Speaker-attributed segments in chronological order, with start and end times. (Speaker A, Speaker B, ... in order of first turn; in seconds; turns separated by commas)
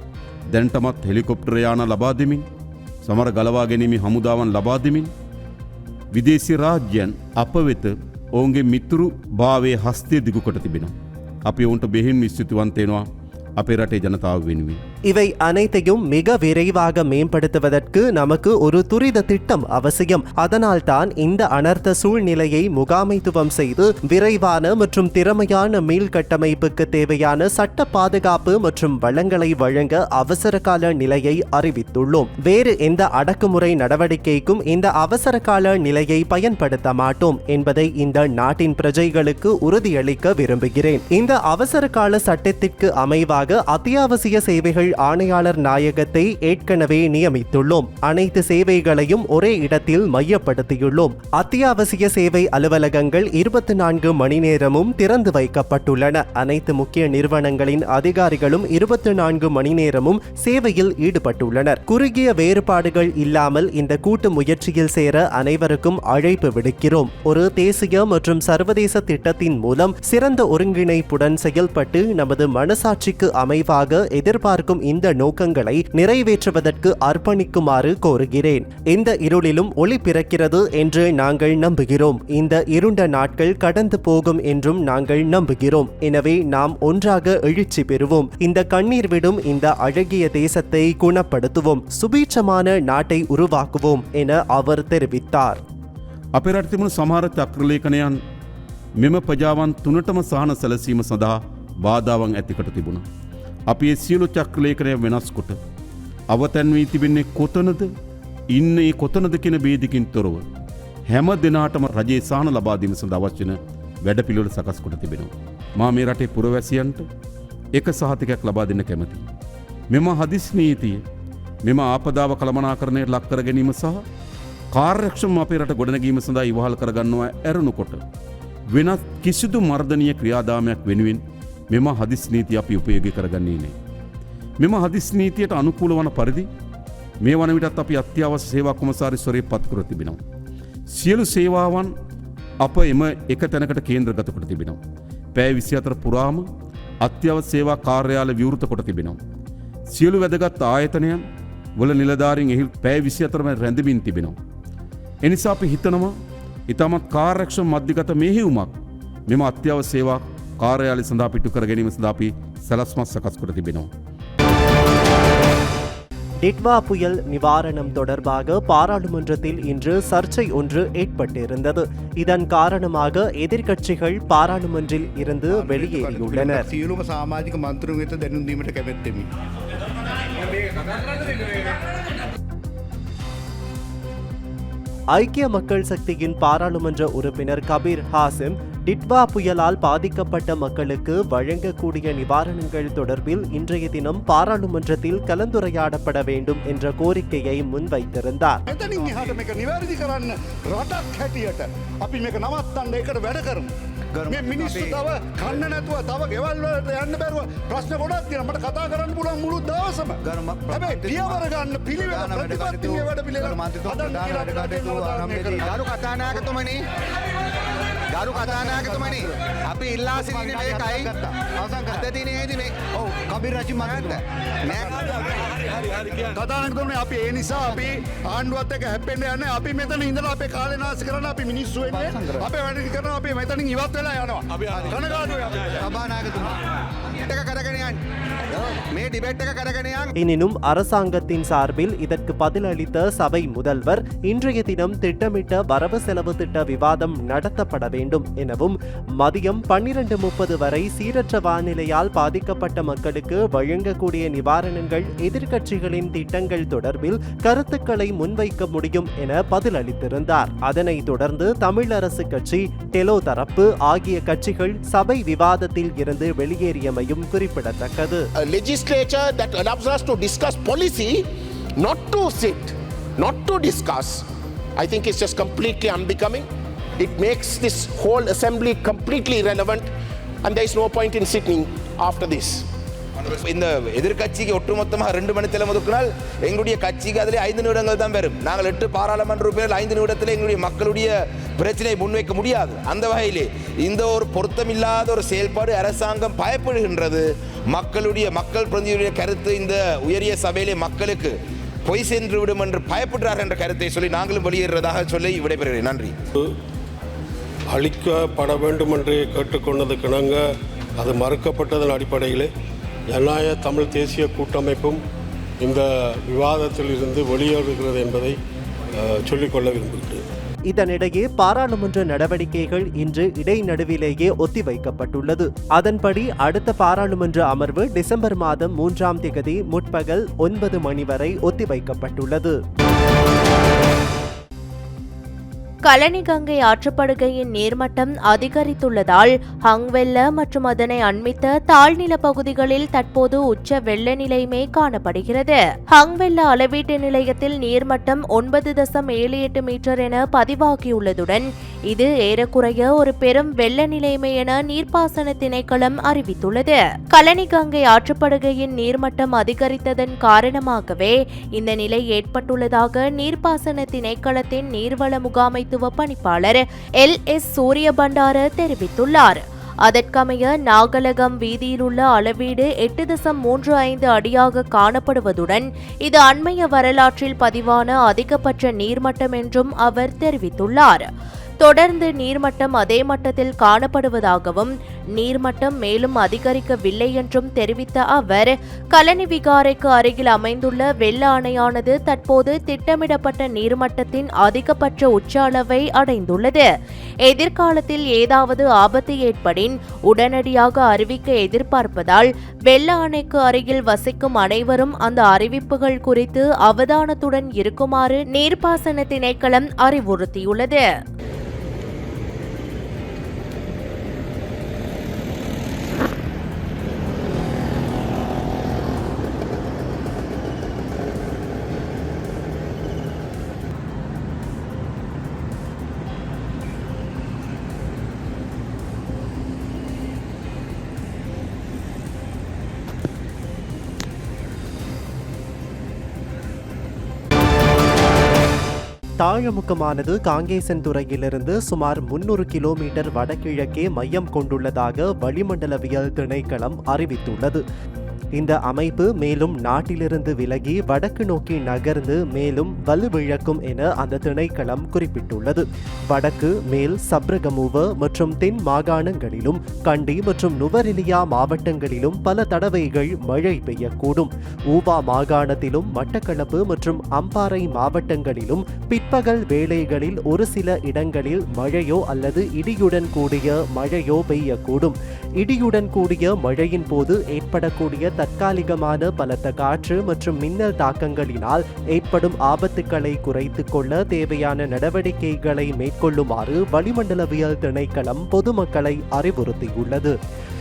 Speaker A: 0.5-2.4, Speaker A: 3.0-5.1, Speaker A: 6.1-10.9, Speaker A: 11.5-13.1, Speaker A: 13.6-14.8, Speaker B: 15.1-95.6, Speaker A: 96.3-98.2, Speaker A: 99.0-103.0, Speaker A: 103.7-105.6, Speaker A: 106.3-107.9, Speaker A: 108.5-110.4, Speaker A: 111.1-117.0, Speaker A: 117.8-119.2, Speaker A: 119.9-121.0, Speaker A: 121.7-124.0, Speaker A: 124.7-128.0, Speaker A: 128.7-133.7, Speaker A: 134.6-136.5, Speaker A: 137.2-140.2, Speaker A: 140.9-141.9, Speaker A: 142.6-144.8, Speaker A: 145.3-146.5, Speaker A: 147.0-149.2, Speaker A: 149.9-151.2, Speaker A: 151.8-154.3, Speaker A: 155.2-156.1, Speaker A: 156.7-158.7, Speaker A: 159.3-163.9, Speaker B: 166.4-176.7, Speaker C: 175.5-179.2, Speaker B: 185.1-198.6, Speaker D: 198.7-203.7, Speaker C: 204.1-205.0, Speaker D: 204.3-215.7, Speaker C: 210.2-216.8, Speaker C: 218.1-225.5, Speaker D: 218.4-219.2, Speaker D: 220.3-221.1, Speaker D: 224.8-225.2, Speaker D: 226.1-235.8, Speaker C: 231.9-232.4, Speaker C: 234.7-235.1, Speaker C: 235.8-238.0, Speaker C: 238.5-240.1, Speaker B: 240.2-268.3, Speaker E: 268.4-274.2, Speaker E: 274.8-276.5, Speaker E: 277.0-279.9, Speaker E: 280.4-282.6, Speaker F: 283.2-306.1, Speaker G: 307.7-310.4, Speaker G: 311.0-312.5, Speaker G: 313.1-315.0, Speaker G: 315.6-318.4, Speaker G: 318.9-320.2, Speaker B: 320.7-332.6, Speaker H: 335.9-381.1, Speaker H: 381.6-396.6, Speaker H: 397.3-410.8, Speaker B: 439.2-447.6, Speaker B: 448.4-490.1